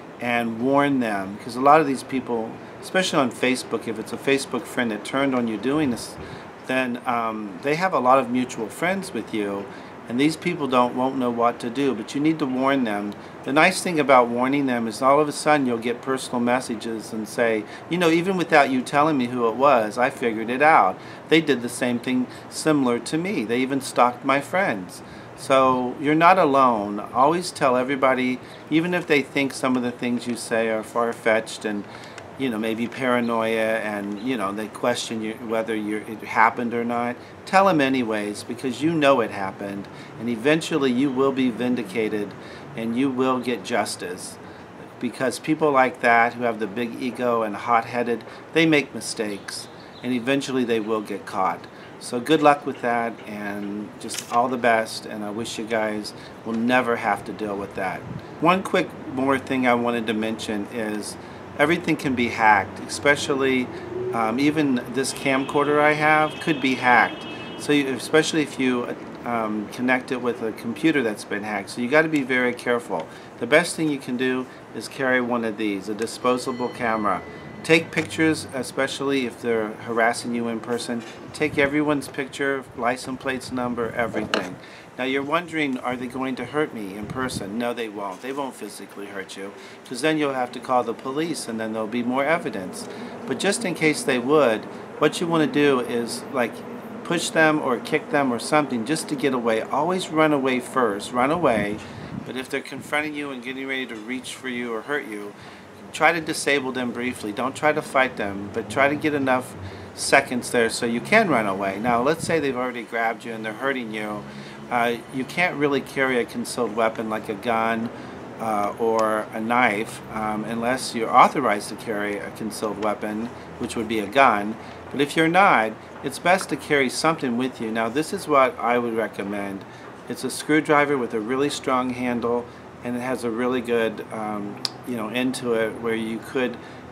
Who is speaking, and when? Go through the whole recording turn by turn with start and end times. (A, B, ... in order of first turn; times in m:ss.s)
0:00.2-0:44.4 A
0:45.0-1:45.3 A
1:45.9-2:16.6 A